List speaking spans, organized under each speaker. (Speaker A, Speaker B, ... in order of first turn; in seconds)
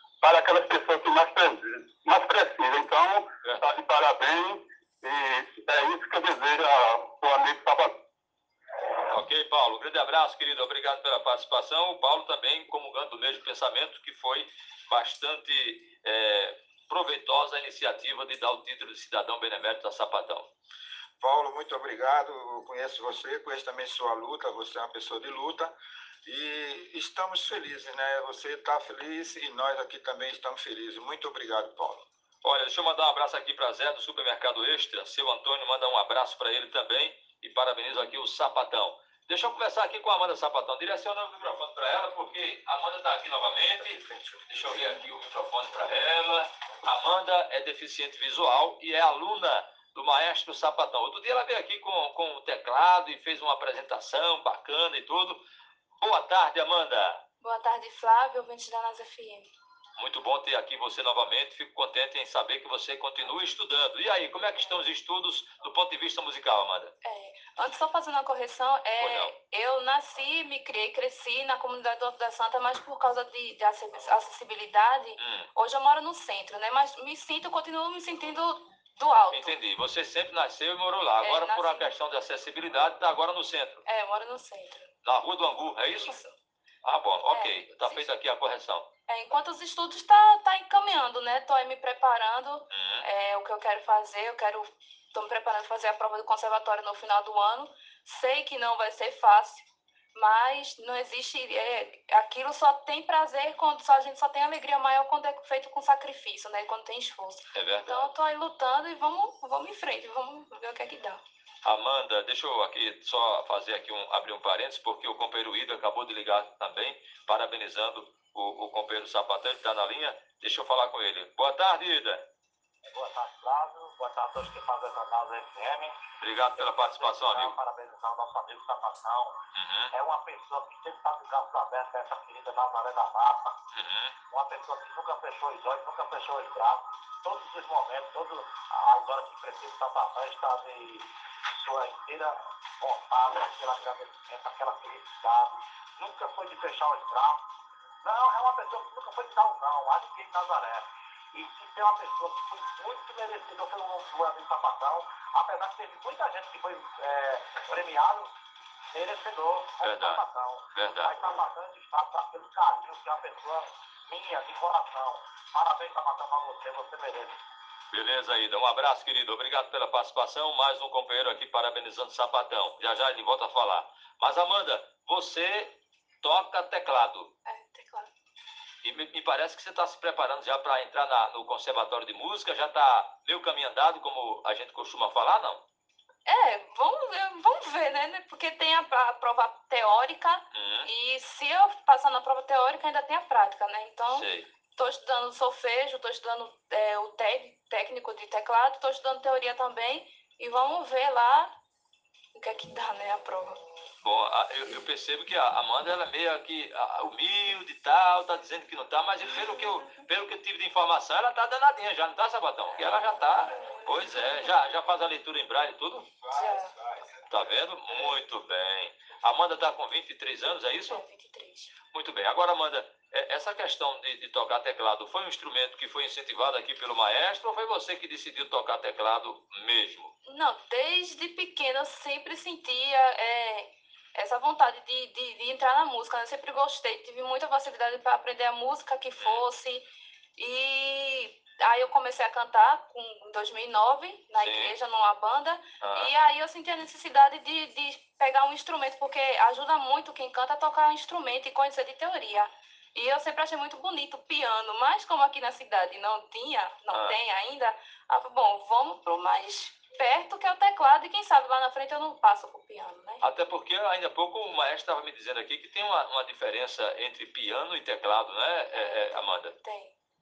Speaker A: 0.2-7.9
Speaker B: 3.4-3.8, 9.1-20.5, 32.4-55.4, 56.0-57.2, 60.0-66.9, 69.0-69.3, 75.2-75.5, 79.3-83.8, 85.0-86.2, 86.8-88.9, 92.7-93.1, 107.5-108.1, 111.7-122.2, 126.2-127.6, 129.6-129.9, 133.7-134.2, 159.8-160.2, 160.7-161.2, 167.9-177.3, 178.8-185.6, 190.5-190.9, 194.1-194.5, 204.0-216.1, 217.3-221.0, 221.9-230.1, 244.3-244.7, 245.8-246.1, 256.9-257.2, 263.2-269.6
Speaker C: 21.2-32.1, 216.2-217.6
Speaker D: 57.4-59.5, 67.0-79.6, 81.2-81.9, 83.8-84.9, 85.9-86.3, 87.3-88.1, 89.1-111.2, 177.5-178.1, 186.3-201.5, 202.3-203.6, 209.3-210.1, 213.6-214.4, 216.3-216.7, 220.7-221.7, 230.2-239.8, 240.4-263.2, 268.7-269.9
Speaker E: 122.9-126.0, 126.6-129.4, 129.9-133.6, 134.3-147.5, 148.0-158.3, 158.9-167.4